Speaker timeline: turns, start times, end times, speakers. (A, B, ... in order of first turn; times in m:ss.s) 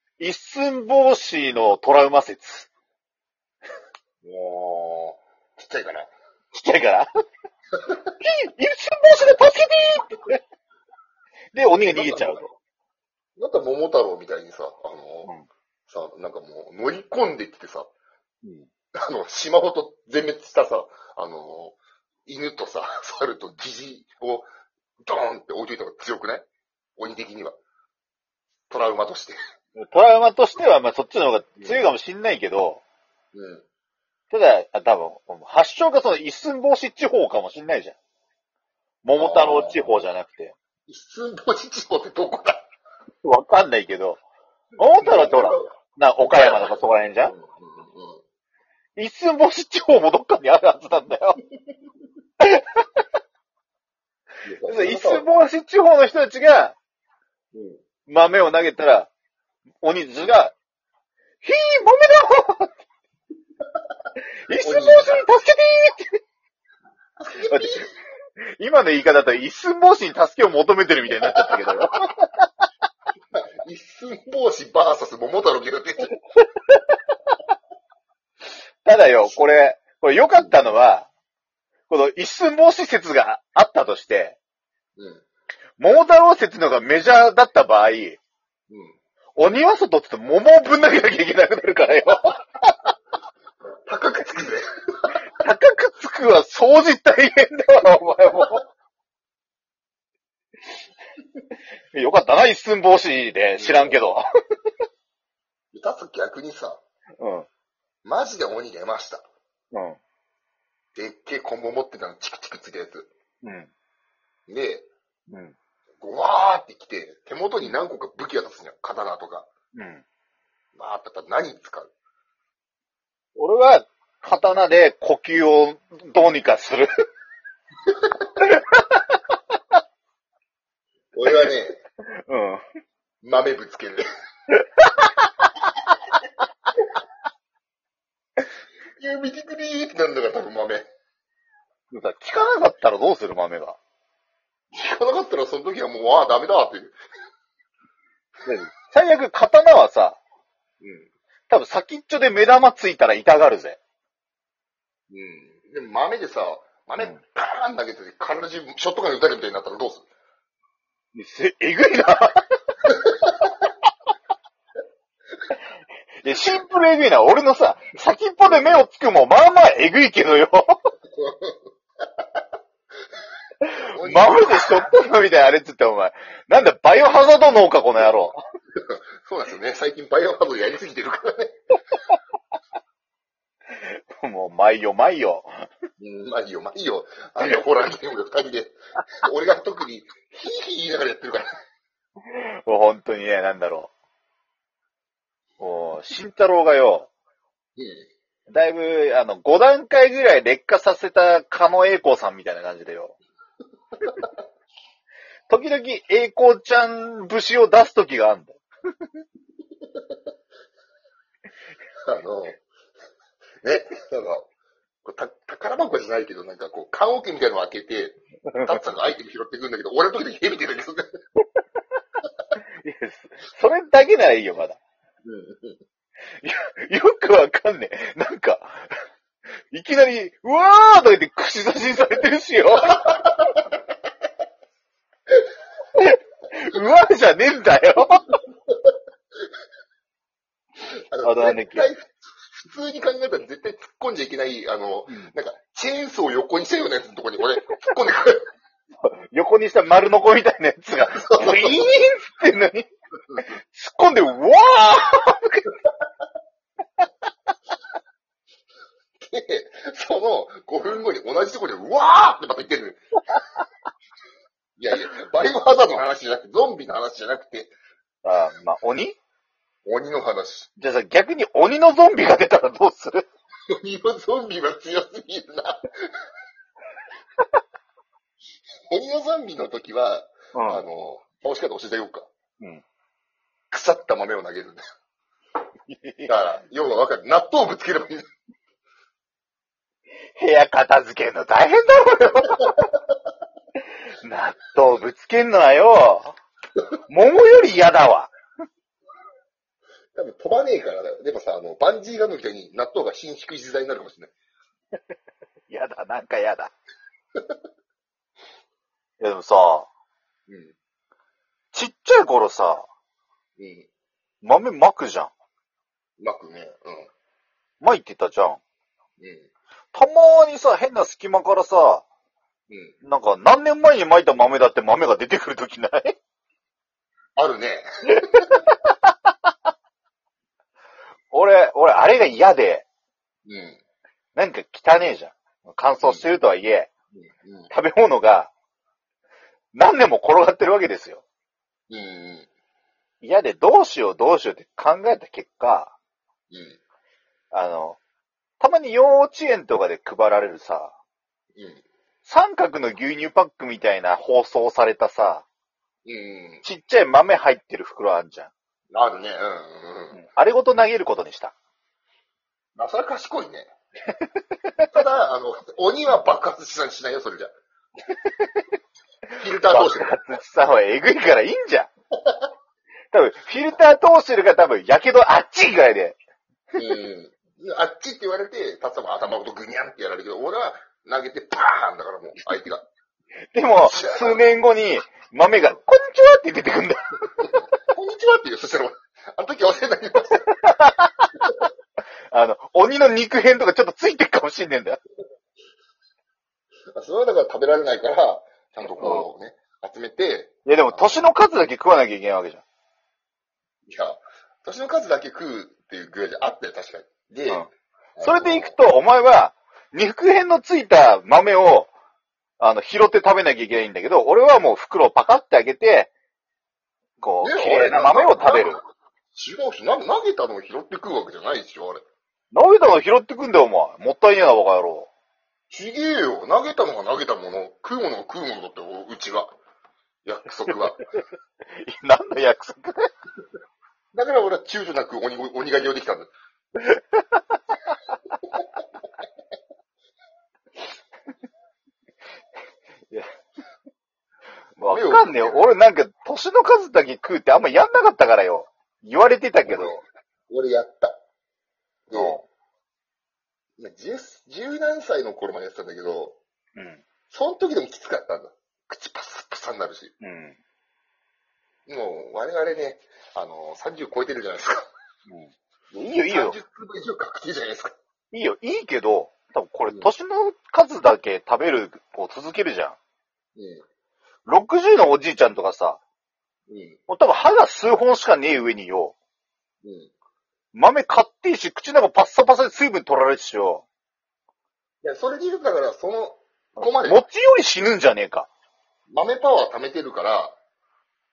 0:00.2-0:02.7 A
0:04.2-0:06.1 B
0:06.5-0:07.1 A
0:08.2-0:10.4 A
0:11.5-0:12.5 A
0:11.9-0:12.5 B
0:13.4-0:15.3 B
0:15.9-0:17.9 B
0:18.4-0:18.7 A
0:19.0-0:24.5 B
0:25.0-0:26.5 B
0:27.0-0:27.6 B
0:28.7-0:29.4 B
0:29.8-0:32.8 A
0:33.3-0:33.6 B
0:34.3-0:38.0 A
0:39.0-0:40.6 A
0:39.2-0:39.8 B
0:40.9-0:42.7 B
0:43.2-0:44.2 A
0:44.8-0:47.3 A
0:44.9-0:45.7 B
0:46.3-0:48.2 B
0:49.0-0:51.4 A
0:52.4-0:53.0 A
0:54.4-0:55.2 B
0:54.7-0:56.8 A
0:57.5-0:57.8 B
0:58.1-0:59.1 A
0:59.8-1:00.6 A
1:01.4-1:02.7 A
1:04.5-1:06.1 A
1:04.5-1:05.2 B
1:07.2-1:07.9 B
1:07.5-1:07.8 A
1:08.6-1:12.3 A
1:11.2-1:11.5 B
1:13.3-1:16.1 B
1:16.6-1:16.8 A
1:18.8-1:21.1 A
1:21.9-1:24.4 A
1:25.0-1:25.2 B
1:25.8-1:28.2 A
1:28.7-1:29.0 B
1:29.4-1:32.7 A
1:33.9-1:35.2 B
1:35.4-1:38.6 A
1:41.9-1:44.2 A
1:43.6-1:44.0 B
1:45.7-1:46.8 B
1:47.2-1:47.5 A
1:48.0-1:49.2 B
1:49.7-1:50.0 A
1:50.9-1:53.1 B
1:53.4-1:53.7 A
1:54.5-1:54.9 B
1:55.3-1:55.6 A
1:56.0-1:59.5 B
1:59.8-2:00.0 A
2:00.8-2:01.9 B
2:03.4-2:06.9 A
2:08.4-2:09.2 A
2:11.1-2:11.8 B
2:12.1-2:12.6 A
2:13.2-2:14.0 B
2:14.5-2:15.7 A
2:19.0-2:20.9 B
2:21.9-2:23.8 A
2:24.7-2:27.0 B
2:28.4-2:30.2 A
2:30.8-2:31.1 B
2:31.5-2:33.8 A
2:35.1-2:40.1 B
2:41.1-2:42.4 A
2:42.9-2:43.3 B
2:46.2-2:50.8 A
2:51.1-2:51.6 B
2:53.7-2:58.4 A
2:53.9-2:54.9 B
2:58.8-3:01.6 B
3:03.8-3:05.7 A
3:06.0-3:11.5 B
3:07.4-3:07.7 A
3:12.3-3:13.9 A
3:15.6-3:17.1 A
3:17.8-3:18.0 B
3:18.5-3:23.2 A
3:25.5-3:28.6 A
3:32.0-3:32.6 B
3:33.6-3:34.5 B
3:35.0-3:41.1 B
3:38.5-3:38.8 A
3:42.8-3:44.8 A
3:45.2-3:45.8 B
3:46.4-3:48.9 A
3:49.7-3:53.3 A
3:53.0-3:53.3 B
3:55.9-3:58.4 A
4:01.1-4:08.4 B
4:01.2-4:01.9 A
4:09.0-4:12.9 A
4:11.1-4:11.9 B
4:13.6-4:15.7 A
4:19.2-4:23.0 B
4:24.8-4:27.7 B
4:28.2-4:29.2 A
4:29.8-4:30.7 B
4:30.8-4:33.3 A
4:33.7-4:36.1 B
4:38.9-4:42.3 B
4:40.5-4:40.8 A
4:43.7-4:44.8 B
4:45.9-4:46.3 A
4:46.2-4:48.2 B
4:50.4-4:52.8 A
4:54.2-4:56.4 A
4:57.1-4:58.3 A
5:00.1-5:04.3 B
5:05.7-5:06.7 A
5:09.2-5:09.9 A
5:10.5-5:10.8 B
5:11.7-5:12.9 A
5:13.6-5:13.9 B
5:14.4-5:15.3 A
5:16.2-5:17.1 B
5:17.8-5:18.6 A
5:19.2-5:19.5 B
5:19.9-5:22.0 A
5:22.7-5:23.0 B
5:23.0-5:26.2 A
5:27.4-5:28.6 B
5:28.3-5:29.3 A
5:31.3-5:32.9 A
5:33.5-5:33.8 B
5:34.4-5:36.9 A
5:36.0-5:36.3 B
5:37.1-5:37.7 B
5:37.7-5:38.5 A
5:39.7-5:41.2 A
5:41.9-5:42.5 B
5:43.2-5:46.0 A
5:46.5-5:46.8 B
5:47.5-5:48.0 A
5:48.6-5:50.9 A
5:51.6-5:51.8 B
5:52.2-5:55.5 A
5:56.0-5:56.6 B
5:56.6-5:58.5 A
5:58.9-6:00.2 B
6:00.1-6:01.5 A
6:02.8-6:03.7 B
6:04.2-6:04.9 A
6:04.8-6:07.5 B
6:08.1-6:08.6 A
6:09.4-6:10.2 B
6:09.7-6:11.9 A
6:13.1-6:16.2 A
6:16.8-6:22.9 B
6:23.5-6:27.7 A
6:23.8-6:24.5 B
6:27.9-6:30.5 B
6:30.6-6:31.6 A
6:32.3-6:35.0 A
6:36.9-6:41.2 B
6:39.0-6:39.3 A
6:40.7-6:42.6 A
6:43.9-6:48.8 B
6:48.2-6:51.9 A
6:52.6-6:56.1 A
6:57.2-6:58.8 A
6:57.4-6:58.8 B
6:59.3-7:02.0 B
7:02.5-7:05.1 A
7:05.7-7:09.5 B
7:10.2-7:11.0 B
7:10.7-7:11.2 A
7:11.8-7:13.1 A
7:14.1-7:16.3 B
7:16.8-7:17.6 A
7:24.8-7:25.7 B
7:24.8-7:30.0 A
7:29.7-7:31.2 B
7:32.1-7:32.4 B
7:32.1-7:32.4 A
7:33.8-7:36.4 B
7:36.8-7:37.0 A
7:37.3-7:40.1 B
7:40.2-7:40.6 A
7:41.9-7:44.8 B
7:45.3-7:46.6 A
7:46.2-7:48.0 B
7:48.3-7:53.0 A
7:49.9-7:50.1 B
7:53.6-7:53.8 B
7:54.5-7:56.0 A
7:56.7-7:57.0 B
7:57.1-7:59.2 A
7:59.8-8:00.1 B
8:00.7-8:03.8 A
8:05.0-8:07.2 B
8:06.8-8:08.5 A
8:09.1-8:10.6 B